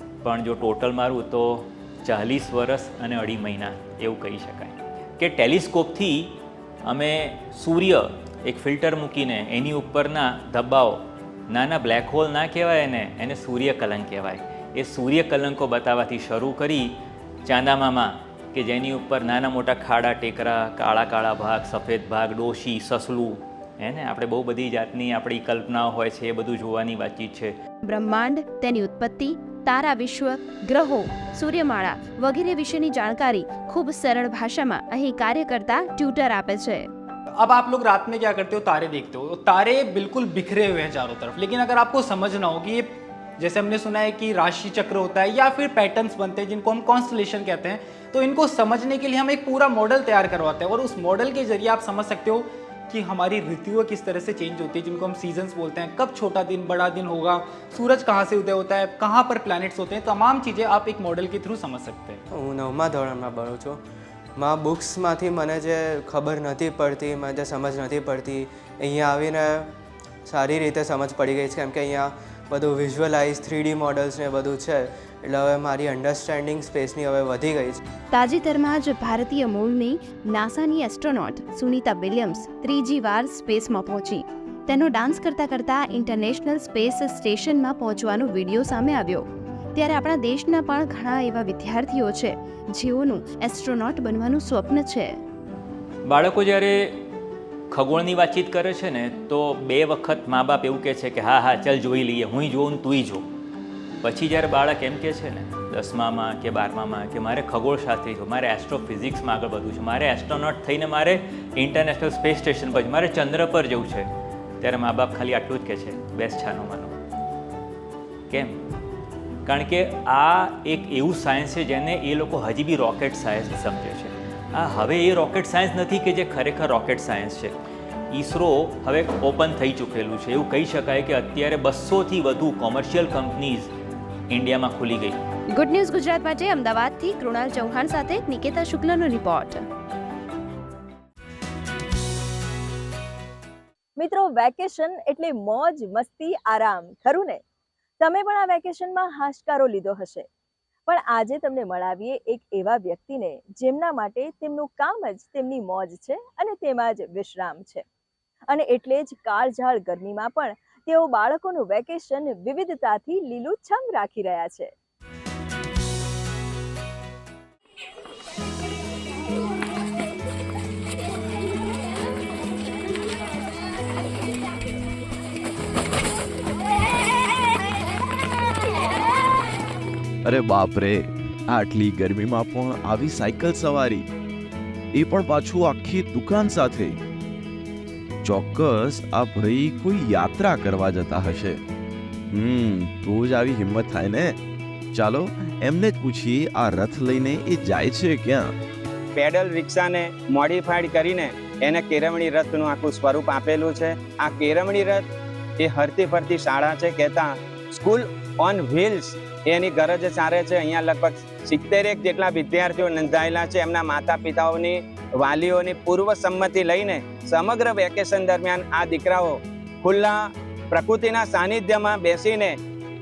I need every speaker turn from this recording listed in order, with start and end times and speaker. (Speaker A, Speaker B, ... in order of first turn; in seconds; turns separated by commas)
Speaker A: 0.2-27.6, Speaker B: 27.9-36.9, Speaker C: 37.4-62.2, Speaker D: 62.3-63.8, Speaker D: 64.3-69.7, Speaker D: 70.2-77.8, Speaker B: 78.1-95.2, Speaker A: 96.0-97.0, Speaker A: 97.7-103.2, Speaker A: 104.0-114.1, Speaker A: 114.6-117.0, Speaker A: 118.3-118.6, Speaker A: 119.5-127.6, Speaker A: 128.1-133.7, Speaker A: 134.3-135.2, Speaker B: 135.5-139.7, Speaker E: 144.0-147.4, Speaker E: 148.0-150.3, Speaker E: 150.9-157.8, Speaker E: 158.5-164.7, Speaker F: 180.2-184.1, Speaker F: 184.9-187.0, Speaker F: 188.2-191.6, Speaker F: 192.3-194.4, Speaker F: 194.9-198.5, Speaker G: 199.2-205.0, Speaker G: 205.6-220.2, Speaker G: 220.7-222.6